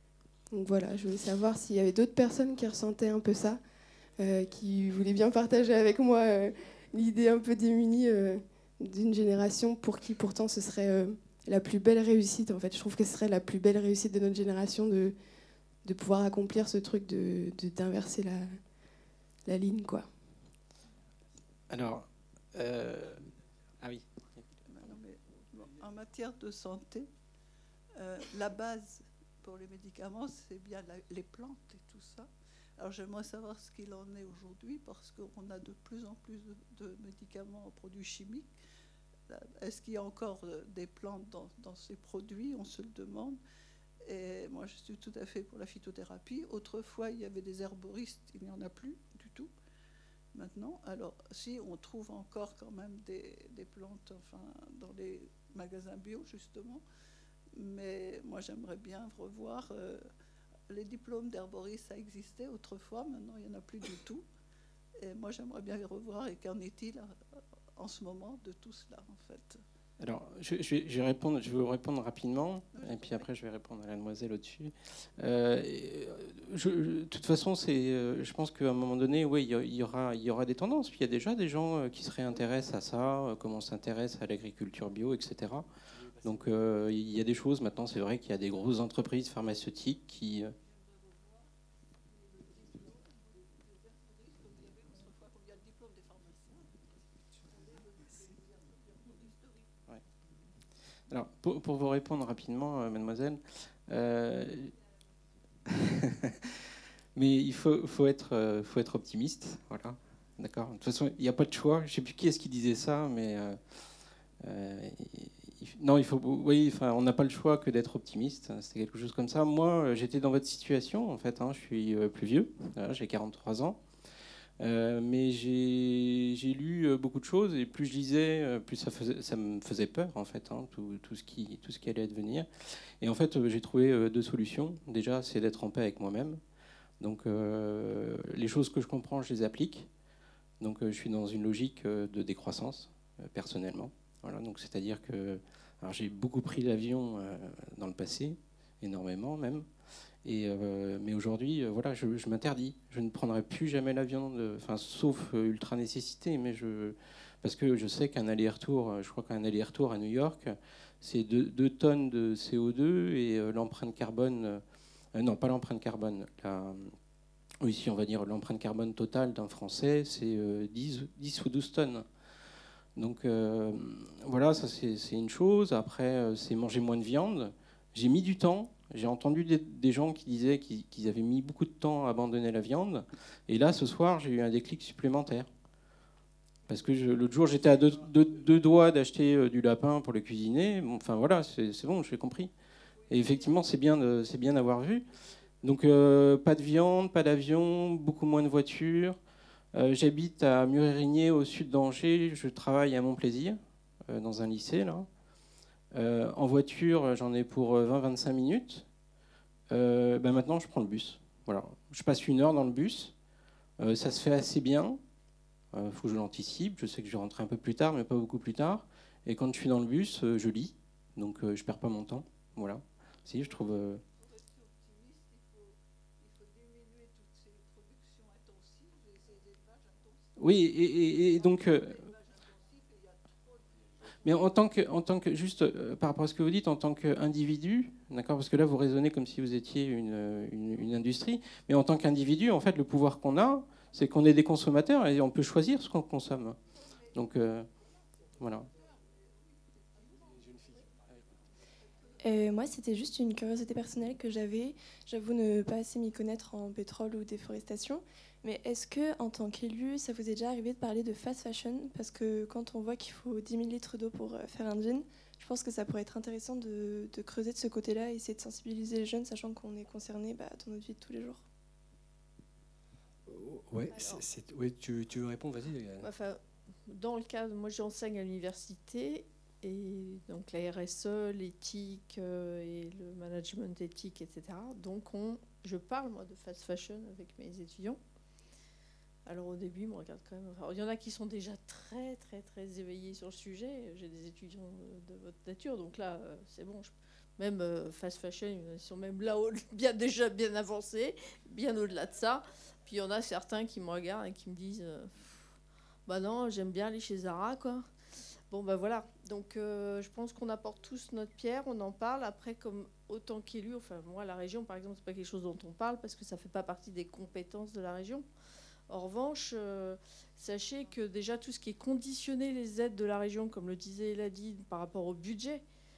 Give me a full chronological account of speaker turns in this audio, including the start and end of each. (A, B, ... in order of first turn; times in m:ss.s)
0:00.5-0:03.6 A
0:04.2-0:15.2 A
0:15.8-0:18.5 A
0:19.4-0:20.1 A
0:21.7-0:23.3 B
0:23.8-0:24.4 B
0:24.7-0:27.1 C
0:28.0-0:38.5 C
0:39.3-0:43.4 C
0:44.1-0:49.5 C
0:50.3-0:56.8 C
0:57.6-1:00.0 C
1:00.7-1:04.2 C
1:05.0-1:07.1 C
1:07.8-1:09.6 C
1:10.0-1:25.7 B
1:12.7-1:13.3 C
1:26.2-1:30.5 B
1:30.6-1:39.9 C
1:41.1-1:44.7 B
1:45.7-1:46.3 B
1:47.2-1:53.6 B
1:54.4-2:03.8 B
2:04.6-2:12.5 B
2:13.0-2:16.4 B
2:17.0-2:19.9 B
2:20.6-2:29.7 B
2:30.2-2:44.6 B
2:45.1-2:46.9 B
2:47.6-2:52.0 B
2:53.0-3:05.5 B
3:06.7-3:12.5 B
3:06.7-3:08.7 C
3:12.9-3:14.7 C
3:13.1-3:15.0 B
3:15.6-3:19.2 B
3:19.7-3:25.1 B
3:25.9-3:28.8 B
3:29.7-3:33.1 B
3:33.8-3:35.0 B
3:35.7-3:44.0 B
3:43.3-3:54.7 C
3:50.4-3:52.0 B
3:54.2-4:06.6 B
4:06.7-4:12.2 C
4:07.1-4:07.7 B
4:08.4-4:08.7 B
4:12.2-4:31.4 D
4:33.3-4:36.1 E
4:34.0-4:34.2 F
4:36.0-4:48.0 F
4:49.3-5:05.4 F
5:06.1-5:07.9 F
5:08.5-5:18.2 F
5:18.9-5:25.6 F